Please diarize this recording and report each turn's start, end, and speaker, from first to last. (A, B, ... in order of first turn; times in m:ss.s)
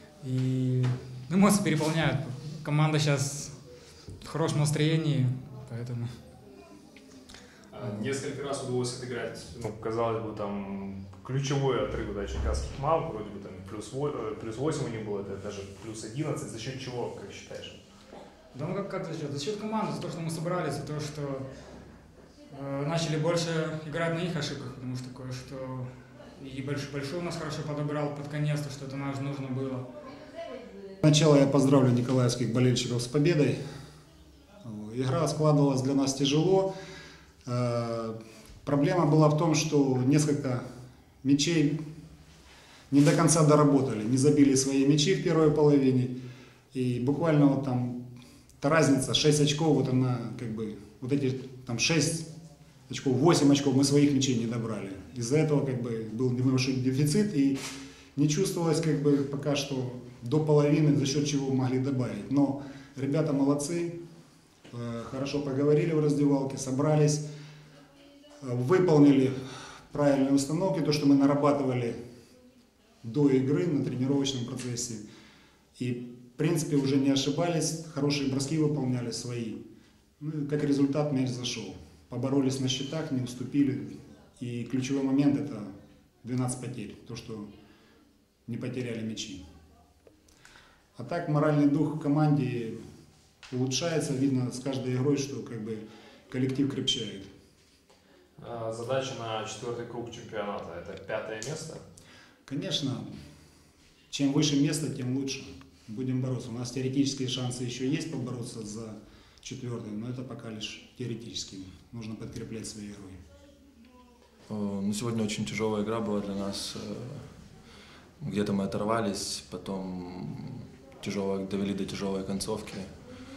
0:00.2-0:03.6 A
0:04.2-0:06.2 A
0:07.7-0:17.8 B
0:18.5-0:21.5 A
0:22.5-0:29.9 A
0:31.0-0:33.6 C
0:34.6-0:36.7 C
0:37.5-0:40.6 C
0:41.2-0:41.8 C
0:42.9-0:46.2 C
0:46.7-0:48.0 C
0:48.6-0:52.3 C
0:52.9-0:57.6 C
0:58.2-1:04.0 C
1:04.7-1:07.3 C
1:08.4-1:09.4 C
1:09.9-1:12.0 C
1:13.0-1:15.0 C
1:15.8-1:19.6 C
1:20.2-1:25.7 C
1:26.2-1:27.5 C
1:28.5-1:29.4 C
1:31.0-1:32.8 C
1:33.5-1:37.3 C
1:38.4-1:41.8 B
1:42.5-1:43.1 C
1:44.1-1:53.2 C
1:54.5-1:57.4 D
1:58.2-2:03.0 D